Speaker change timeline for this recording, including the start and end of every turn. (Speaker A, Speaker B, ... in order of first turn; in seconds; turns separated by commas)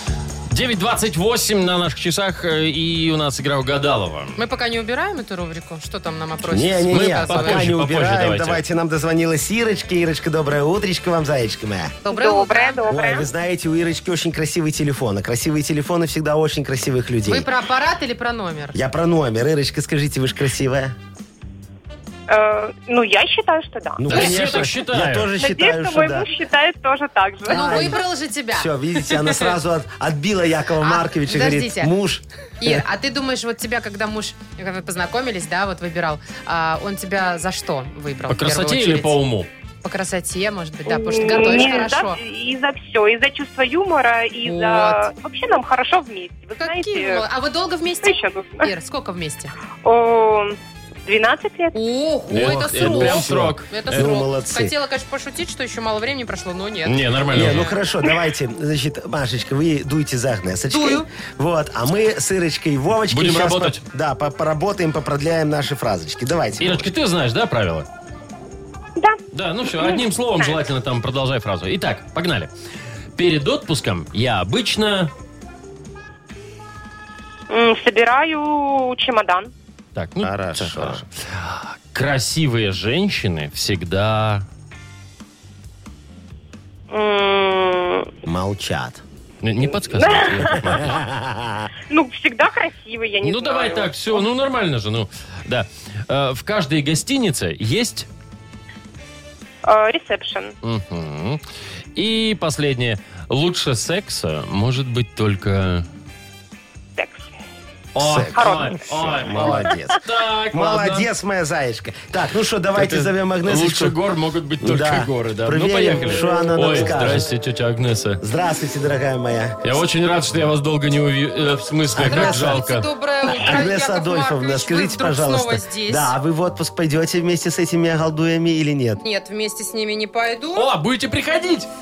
Speaker A: 0.5-4.4, Speaker B: 4.4-7.7, Speaker C: 6.4-12.0, Speaker A: 6.9-8.6, Speaker B: 12.0-12.8, Speaker D: 12.1-13.3, Speaker C: 12.9-17.5, Speaker B: 17.2-18.8, Speaker C: 18.7-20.9, Speaker D: 22.3-24.3, Speaker C: 24.0-26.3, Speaker A: 24.1-25.3, Speaker D: 25.4-27.8, Speaker C: 27.5-28.0, Speaker B: 27.5-29.5, Speaker C: 28.5-32.8, Speaker B: 30.8-31.9, Speaker B: 32.6-39.1, Speaker A: 38.3-39.5, Speaker B: 39.8-42.2, Speaker D: 40.9-47.2, Speaker B: 44.4-45.1, Speaker B: 46.6-49.5, Speaker D: 48.0-48.7, Speaker D: 49.8-51.8, Speaker B: 51.7-57.7, Speaker A: 52.3-54.1, Speaker C: 52.3-54.7, Speaker A: 56.8-57.7, Speaker C: 57.3-66.9, Speaker B: 60.7-61.1, Speaker A: 63.1-63.8, Speaker A: 66.6-67.8, Speaker D: 69.0-70.7, Speaker A: 69.3-72.5, Speaker A: 73.2-75.1, Speaker D: 77.5-79.5, Speaker A: 80.0-84.4, Speaker C: 80.2-81.0, Speaker D: 86.9-88.1, Speaker C: 88.2-89.0, Speaker A: 89.4-91.0, Speaker D: 89.9-90.7, Speaker C: 90.7-91.7, Speaker D: 91.9-94.2, Speaker A: 93.2-98.1, Speaker D: 99.6-100.5, Speaker A: 100.6-101.4, Speaker A: 102.0-105.8, Speaker D: 107.0-107.2, Speaker A: 107.9-111.1, Speaker C: 108.0-110.0, Speaker D: 108.3-110.0, Speaker C: 110.5-114.0, Speaker A: 112.7-118.2, Speaker C: 114.6-117.3, Speaker C: 118.2-119.6, Speaker A: 119.6-122.9, Speaker C: 121.9-122.6, Speaker B: 122.0-126.1, Speaker C: 123.3-129.0, Speaker B: 129.0-130.7, Speaker A: 130.5-131.7